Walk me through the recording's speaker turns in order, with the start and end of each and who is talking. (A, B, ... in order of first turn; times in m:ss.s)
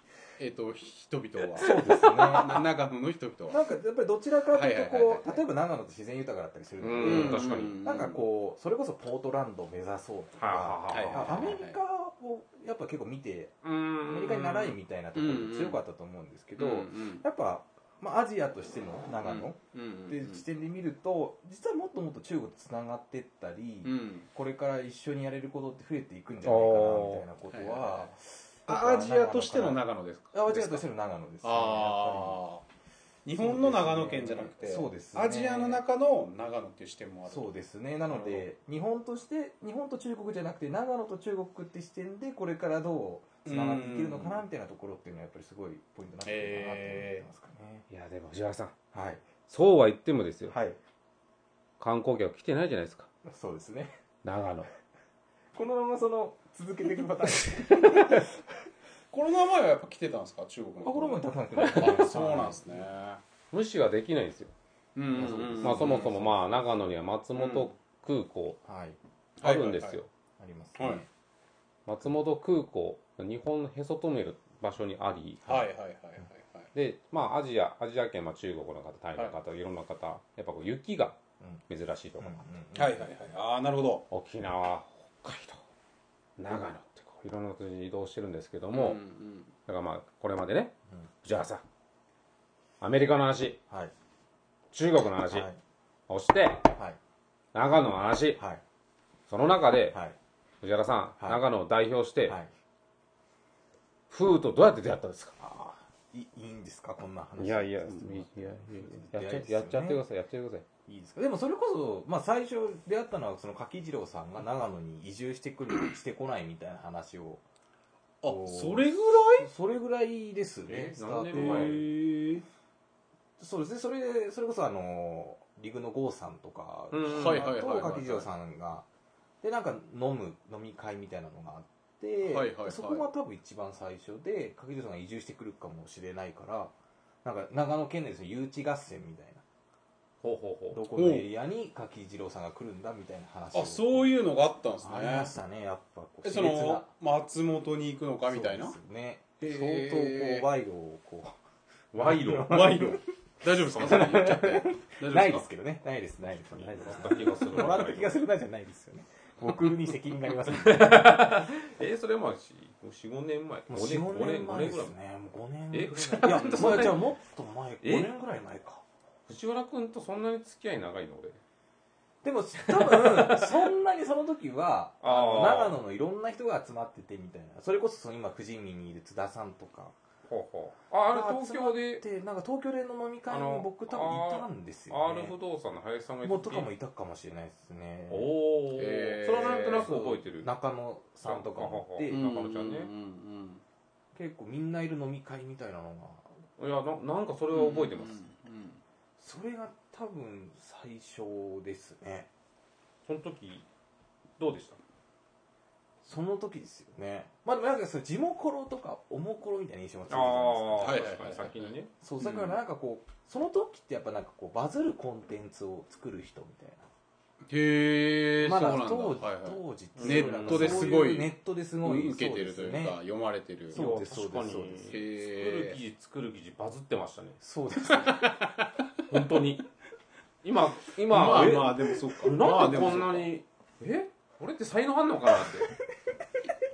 0:00.4-0:03.6 A
0:01.6-0:02.7 B
0:03.5-0:19.6 B
0:04.5-0:05.4 A
0:06.8-0:07.8 C
0:07.0-0:08.2 A
0:10.4-0:11.5 C
0:10.9-0:11.8 A
0:13.6-0:14.4 C
0:14.3-0:15.8 A
0:16.6-0:17.2 A
0:19.2-0:20.4 A
0:20.1-0:32.4 B
0:23.8-0:24.3 A
0:26.4-0:27.3 C
0:27.5-0:28.1 A
0:28.7-0:30.9 A
0:31.4-0:32.6 A
0:33.2-0:37.5 A
0:33.4-0:35.8 B
0:37.3-0:47.9 B
0:38.1-0:38.5 A
0:43.4-0:44.5 A
0:46.2-0:47.3 A
0:47.9-0:48.8 C
0:48.9-0:49.2 B
0:49.5-0:50.6 C
0:50.5-0:50.8 B
0:51.8-0:53.1 C
0:53.2-0:53.9 B
0:54.2-0:54.7 C
0:55.6-0:58.3 B
0:57.6-0:58.2 A
0:59.1-1:03.2 A
1:00.8-1:02.8 B
1:01.6-1:02.0 C
1:03.5-1:04.5 C
1:05.0-1:06.2 A
1:05.1-1:06.7 B
1:05.6-1:08.6 C
1:07.4-1:07.7 A
1:08.6-1:09.0 B
1:09.4-1:10.0 A
1:09.4-1:10.1 C
1:10.4-1:11.1 B
1:10.8-1:11.0 A
1:11.9-1:15.6 C
1:15.5-1:16.7 A
1:16.7-1:22.4 C
1:22.2-1:23.1 B
1:22.8-1:24.1 A
1:24.1-1:25.6 C
1:26.4-1:29.0 C
1:28.7-1:29.5 A
1:29.7-1:31.6 C
1:32.8-1:33.6 C
1:34.7-1:35.5 C
1:35.3-1:35.6 B
1:36.1-1:36.7 C
1:37.5-1:38.4 C
1:39.3-1:40.0 C
1:39.9-1:40.2 B
1:40.6-1:42.4 C
1:44.1-1:45.4 C
1:45.4-1:50.0 B
1:47.4-1:50.7 C
1:50.9-1:57.4 B
1:58.2-1:59.5 A
1:58.2-2:02.0 B
2:00.7-2:01.8 C
2:01.3-2:02.4 A
2:03.4-2:08.9 B
2:06.9-2:07.5 C
2:07.0-2:08.3 A
2:09.4-2:19.4 B
2:12.2-2:13.1 A
2:20.2-2:20.8 C
2:20.7-2:24.1 B
2:20.9-2:21.3 A
2:23.5-2:25.3 A
2:24.8-2:26.9 B
2:26.2-2:28.8 A
2:28.3-2:31.4 B
2:29.4-2:30.5 A
2:31.9-2:32.7 C
2:32.0-2:41.3 B
2:32.3-2:35.5 A
2:33.7-2:34.0 C
2:36.3-2:38.3 C
2:40.4-2:44.9 C
2:43.7-2:48.8 B
2:45.7-2:47.0 C
2:47.8-2:48.1 C
2:49.3-2:51.4 C
2:52.2-3:00.0 B
2:52.7-2:53.6 C
2:55.0-2:55.8 C
3:00.3-3:02.0 C
3:01.1-3:05.4 B
3:03.3-3:06.7 C
3:06.2-3:08.3 B
3:08.1-3:10.5 C
3:08.8-3:09.9 A
3:09.3-3:12.2 B
3:11.2-3:12.9 C
3:12.1-3:13.6 A
3:14.2-3:16.3 B
3:16.6-3:18.2 C
3:17.5-3:18.8 A
3:19.2-3:22.3 B
3:23.1-3:23.7 C
3:24.4-3:24.8 C
3:26.0-3:31.1 B
3:30.1-3:31.9 C
3:30.8-3:32.6 A
3:32.0-3:36.9 B
3:37.5-3:43.8 A
3:38.4-3:43.0 B
3:40.0-3:41.0 C
3:43.7-3:45.0 B
3:43.7-3:47.4 C
3:44.9-3:45.8 A
3:47.4-3:48.4 B
3:47.9-3:48.7 A
3:49.0-3:49.7 C
3:50.4-3:55.7 C
3:51.1-3:53.3 A